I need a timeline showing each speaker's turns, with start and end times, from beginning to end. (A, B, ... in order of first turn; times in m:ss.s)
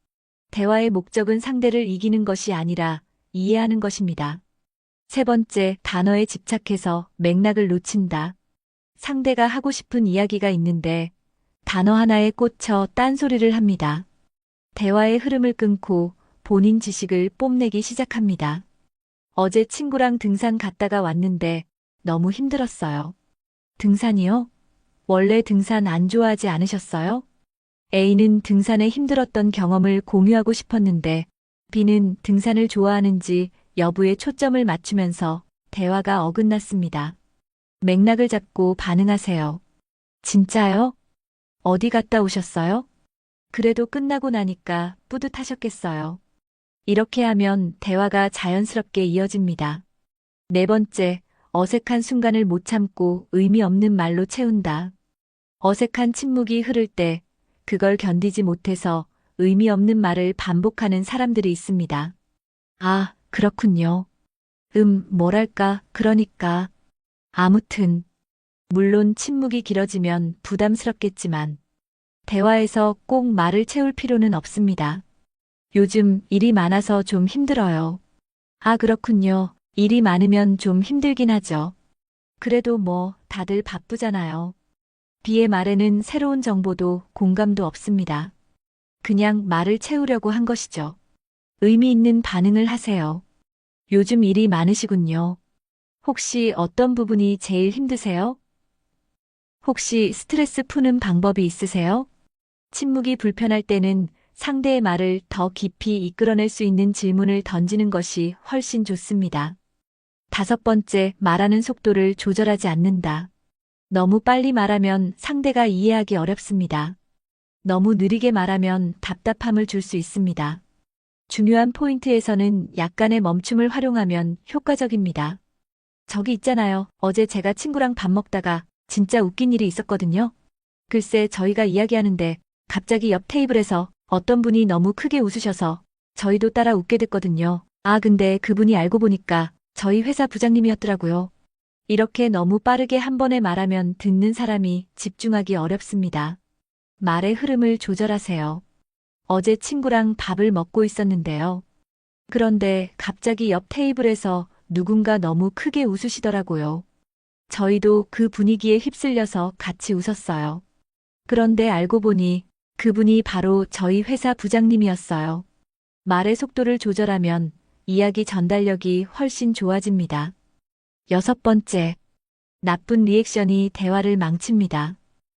0:00.5-0:04.4 A
0:05.1-0:08.4 A
0:09.0-0:11.1 A
0:11.7-0:14.1 A
0:14.8-0:18.6 A
0:19.4-0:23.2 A
0:23.8-0:24.5 A
0:25.1-0:27.2 A
0:27.9-0:37.2 A
0:37.8-0:39.6 A
0:40.2-0:41.0 A
0:41.6-0:42.9 A
0:43.5-0:46.2 A
0:46.9-0:49.8 A
0:50.5-0:54.9 A
0:55.6-1:02.1 A
1:02.8-1:04.1 A
1:04.7-1:06.7 A
1:07.3-1:08.1 A
1:08.7-1:11.6 A
1:12.3-1:15.0 A
1:15.7-1:18.0 A
1:18.6-1:21.8 A
1:22.4-1:24.6 A
1:25.2-1:28.3 A
1:29.0-1:31.0 A
1:31.6-1:33.2 A
1:33.9-1:35.4 A
1:36.0-1:38.4 A
1:39.6-1:42.1 A
1:42.7-1:49.6 A
1:50.3-1:53.3 A
1:53.9-1:57.0 A
1:57.6-2:00.6 A
2:01.3-2:05.4 A
2:06.1-2:10.3 A
2:10.9-2:21.3 A
2:21.9-2:26.4 A
2:27.0-2:28.6 A
2:29.3-2:31.6 A
2:32.3-2:36.8 A
2:37.5-2:40.6 A
2:41.3-2:45.4 A
2:46.0-2:50.3 A
2:51.1-2:52.0 A
2:52.6-2:55.0 A